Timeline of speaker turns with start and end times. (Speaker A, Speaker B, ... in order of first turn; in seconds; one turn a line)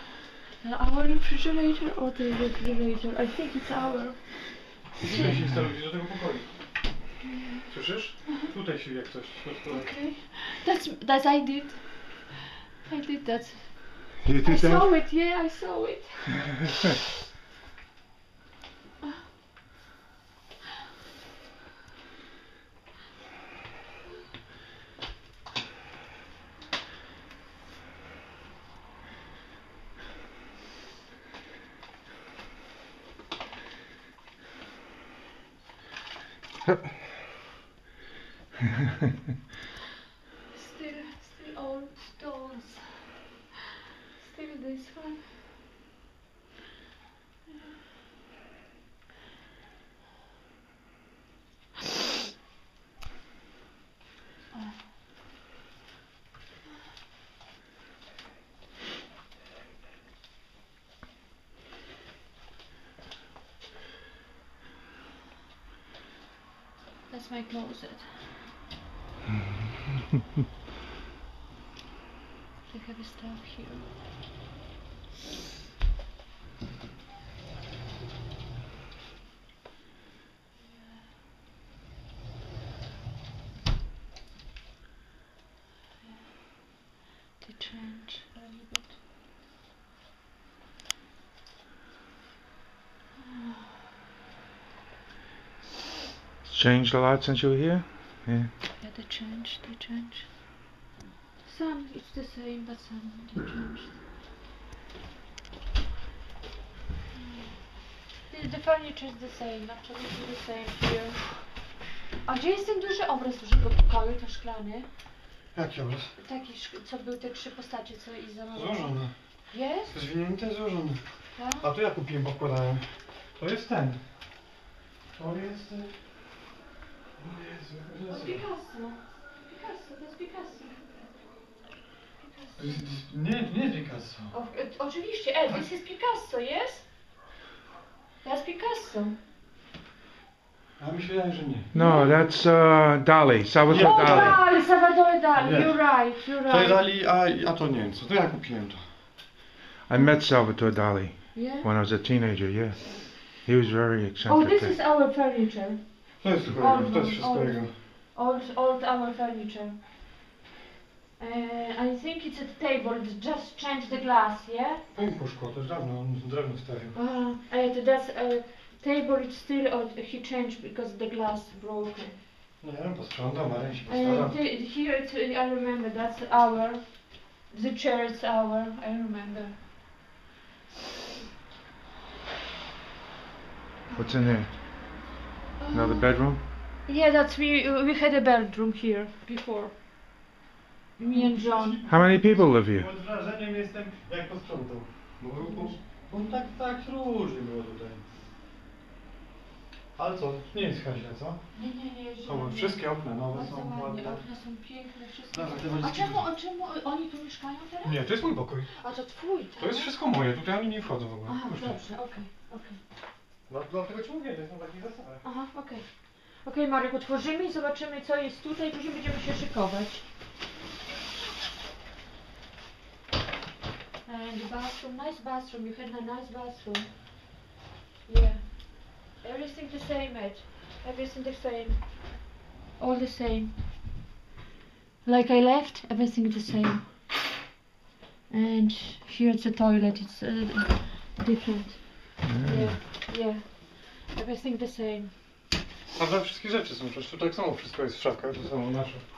Speaker A: 0.6-4.8
Speaker B: 5.0-6.5
Speaker A: 7.2-8.5
Speaker B: 7.7-9.9
Speaker A: 9.7-16.7
Speaker C: 14.2-14.8
Speaker A: 40.5-43.5
Speaker A: 44.1-45.3
Speaker A: 54.5-54.8
Speaker A: 67.1-68.1
Speaker A: 72.7-73.9
Speaker A: 86.0-86.7
Speaker A: 87.4-89.0
Speaker A: 93.2-93.7
Speaker C: 96.4-98.5
Speaker A: 98.8-100.3
Speaker A: 101.4-104.0
Speaker A: 107.2-111.5
Speaker A: 112.2-114.9
Speaker B: 115.5-116.1
Speaker A: 116.2-119.0
Speaker B: 118.5-119.1
Speaker A: 119.5-120.0
Speaker B: 119.9-121.0
Speaker A: 121.4-121.7
Speaker B: 121.6-124.0
Speaker B: 125.2-125.9
Speaker B: 127.2-128.4
Speaker A: 128.1-131.1
Speaker A: 132.2-132.8
Speaker B: 132.6-134.3
Speaker A: 134.3-136.9
Speaker A: 138.2-139.2
Speaker B: 140.8-141.7
Speaker C: 141.7-144.4
Speaker A: 141.7-142.2
Speaker B: 143.7-144.5
Speaker A: 143.7-146.8
Speaker B: 145.4-148.8
Speaker C: 149.9-154.8
Speaker A: 151.3-151.7
Speaker A: 154.3-159.8
Speaker B: 156.2-157.7
Speaker A: 161.2-164.8
Speaker B: 164.9-167.0
Speaker A: 166.9-172.2
Speaker B: 172.6-174.3
Speaker A: 173.9-179.7
Speaker C: 183.9-184.6
Speaker A: 185.6-186.1
Speaker C: 185.7-186.4
Speaker A: 186.8-189.8
Speaker A: 191.0-191.8
Speaker B: 191.1-198.0
Speaker C: 191.9-192.9
Speaker A: 195.4-195.8
Speaker B: 200.0-201.4
Speaker A: 201.5-208.0
Speaker B: 202.2-204.2
Speaker B: 205.3-206.3
Speaker B: 207.8-208.7
Speaker A: 208.7-209.9
Speaker B: 209.6-211.8
Speaker A: 211.3-212.8
Speaker B: 213.5-215.2
Speaker A: 215.2-220.0
Speaker A: 224.0-227.0
Speaker A: 228.1-233.6
Speaker A: 235.0-237.4
Speaker A: 238.3-245.2
Speaker C: 242.2-242.8
Speaker B: 245.9-249.0